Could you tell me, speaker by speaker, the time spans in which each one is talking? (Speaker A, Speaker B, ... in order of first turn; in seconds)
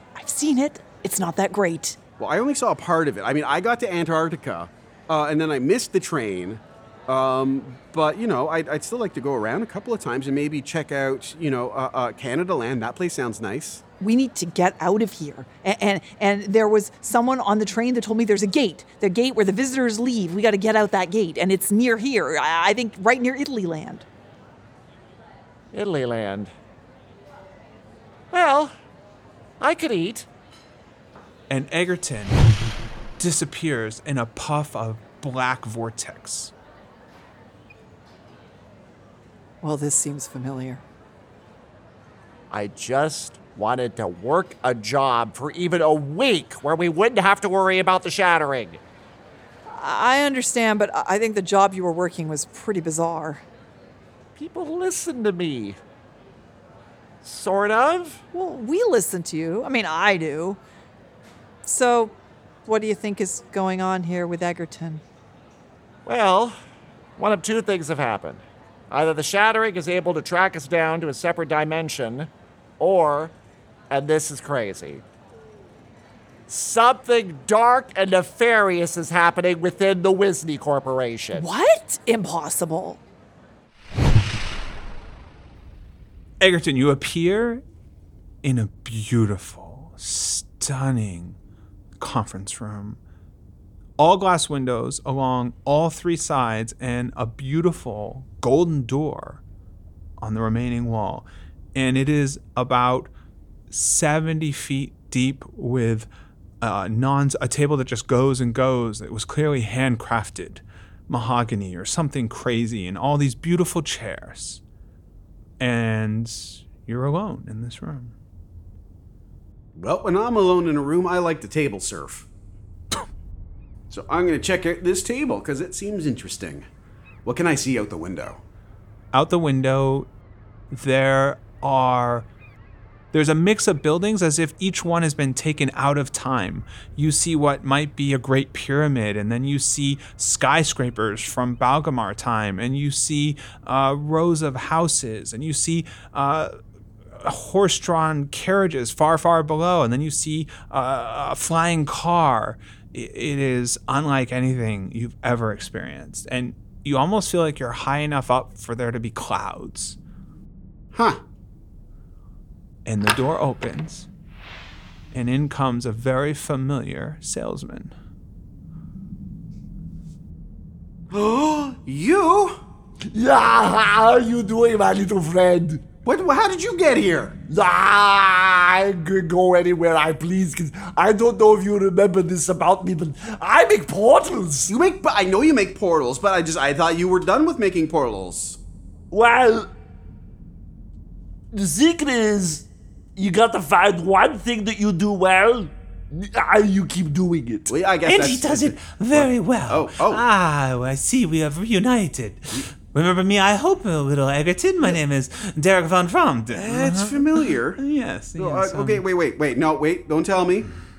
Speaker A: 0.2-2.0, 14.0-24.1, 39.6-40.8, 49.8-53.4, 58.3-60.6, 61.6-62.1, 62.6-65.0, 81.3-83.0
Speaker B: 2.2-13.8, 119.8-122.3, 123.9-126.7, 127.2-128.4, 160.9-161.2, 171.1-172.6, 176.0-177.4, 184.7-188.6, 197.7-200.2, 206.5-207.8, 208.4-210.7
Speaker C: 25.7-26.5, 28.3-28.7, 29.6-30.3, 42.5-48.8, 54.4-55.8, 57.2-58.2, 66.1-66.6, 67.2-73.3, 73.9-75.0, 76.5-81.5
Speaker D: 31.5-32.4, 33.2-36.5, 86.4-87.6, 88.4-91.4, 92.0-93.0, 94.0-99.4, 100.2-103.1, 103.7-106.1, 106.6-114.6, 115.6-118.2, 129.1-130.1, 130.7-132.3, 133.1-146.6, 147.2-160.0, 162.8-164.1, 165.1-167.9, 198.1-209.1
Speaker E: 173.1-175.9, 177.5-184.7, 189.1-189.7, 191.5-197.7